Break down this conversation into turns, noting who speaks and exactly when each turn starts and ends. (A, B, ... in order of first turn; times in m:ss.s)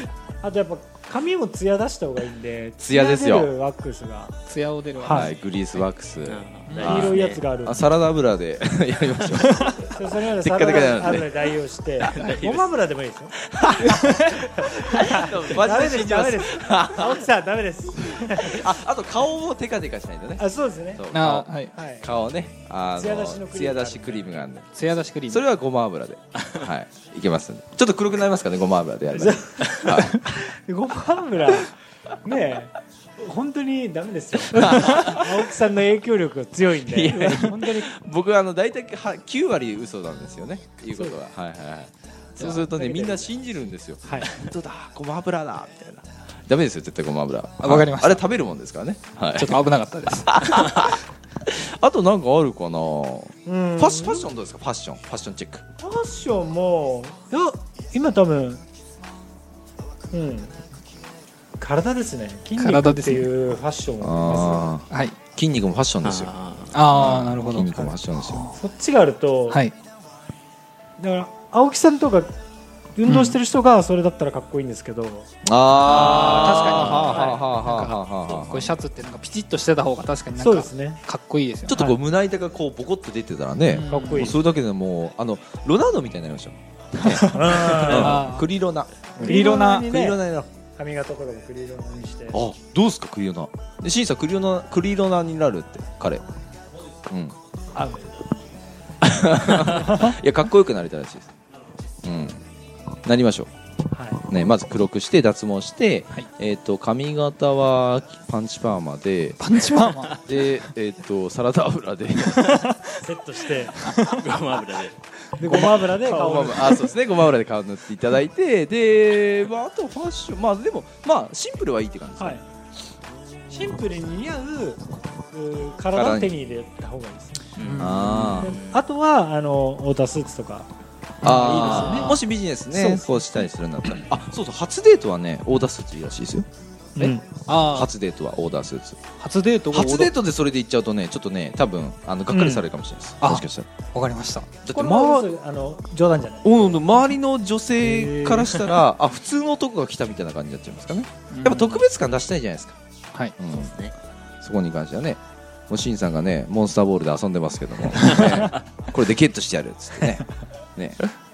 0:00.4-0:04.4 A
0:02.8-0:03.5 B
0:04.5-0:05.8 C
0:05.0-0:05.3 A
0:05.0-0:11.4 B
0:06.3-0:07.4 D
0:06.7-0:07.1 C
0:06.8-0:07.9 A
0:09.8-0:18.7 A
0:12.1-0:12.7 D
0:13.6-0:14.3 B
0:13.9-0:14.3 C
0:15.0-0:17.2 B
0:18.4-0:20.4 B
0:20.4-0:21.0 A
0:20.9-0:24.7 B
0:21.1-0:21.7 C
0:21.7-0:22.1 A
0:22.9-0:24.5 A
0:24.7-0:25.4 C
0:25.2-0:30.2 B
0:29.1-0:31.7 A
0:32.2-0:37.9 A
0:34.4-0:35.5 B
0:36.8-0:49.6 B
0:42.4-0:43.3 A
0:44.0-0:44.3 A
0:47.6-0:48.2 C
0:49.3-0:50.6 C
0:50.2-0:55.6 B
0:53.4-0:54.3 A
0:55.8-0:58.6 A
1:00.1-1:00.6 A
1:01.6-1:04.7 A
1:02.6-1:03.3 C
1:04.0-1:06.3 B
1:04.9-1:05.2 C
1:06.0-1:06.7 D
1:06.7-1:07.7 C
1:06.9-1:08.5 B
1:08.2-1:08.5 C
1:08.5-1:09.6 A
1:11.0-1:12.3 A
1:12.9-1:15.3 A
1:13.1-1:13.4 C
1:15.4-1:18.7 B
1:15.8-1:21.8 C
1:15.8-1:17.4 A
1:20.4-1:21.0 A
1:21.7-1:30.5 B
1:23.7-1:24.3 C
1:23.9-1:24.4 A
1:27.0-1:28.5 C
1:27.2-1:28.2 A
1:29.2-1:30.0 C
1:29.2-1:30.2 A
1:30.7-1:32.4 A
1:32.3-1:36.2 B
1:37.1-1:37.4 B
1:37.7-1:38.1 A
1:39.0-1:41.3 B
1:39.8-1:40.1 A
1:42.0-1:42.4 B
1:43.0-1:43.5 B
1:43.9-1:44.2 A
1:44.3-1:49.4 B
1:49.4-1:50.7 C
1:50.2-1:52.6 B
1:52.3-1:52.9 C
1:53.0-1:53.8 A
1:53.8-1:54.3 C
1:54.1-1:54.9 D
1:55.4-1:57.0 A
1:55.4-2:02.4 B
2:02.2-2:02.4 A
2:03.5-2:10.7 A
2:05.9-2:06.3 B
2:07.6-2:08.8 D
2:07.6-2:08.5 C
2:07.8-2:08.5 B
2:11.2-2:16.4 B
2:11.2-2:12.2 C
2:11.2-2:12.2 A
2:12.7-2:13.5 A
2:17.0-2:17.2 A
2:17.0-2:17.9 C
2:17.7-2:19.0 B
2:19.2-2:20.1 C
2:19.7-2:23.7 B
2:22.3-2:22.6 A
2:23.2-2:24.5 C
2:24.6-2:25.3 B
2:24.7-2:26.8 A
2:26.4-2:32.8 B
2:27.8-2:28.6 A
2:31.3-2:31.8 C
2:33.4-2:33.8 B
2:33.6-2:33.9 D
2:34.4-2:35.2 B
2:35.7-2:41.0 B